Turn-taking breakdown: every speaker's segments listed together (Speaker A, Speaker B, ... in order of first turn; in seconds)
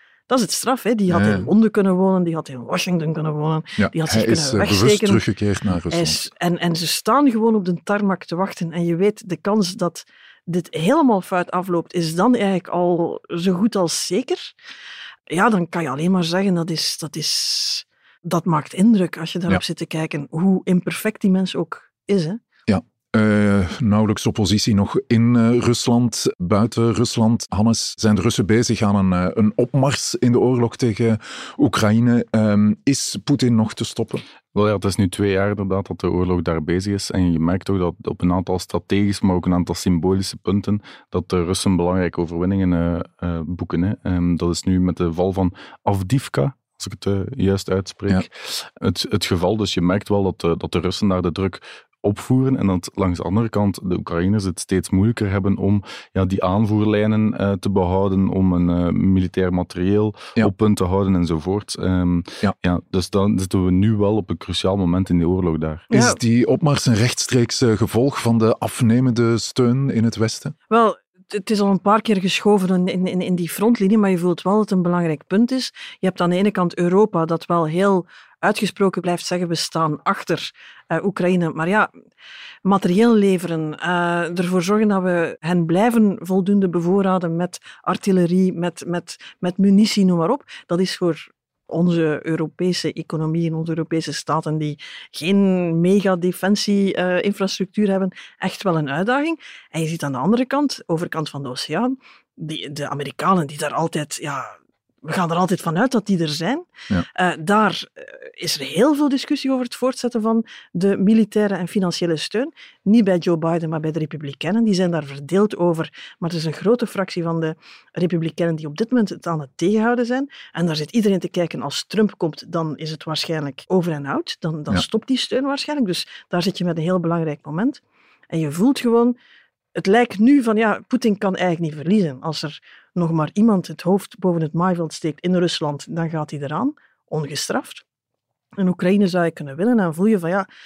Speaker A: 0.3-5.2, 5.9-14.5, 15.3-22.4, 65.9-66.2, 70.7-81.9, 82.7-129.2, 129.8-137.8, 138.6-140.5
Speaker B: 1.1-1.5, 3.8-6.2, 22.7-34.2, 65.9-70.5
Speaker C: 34.5-65.9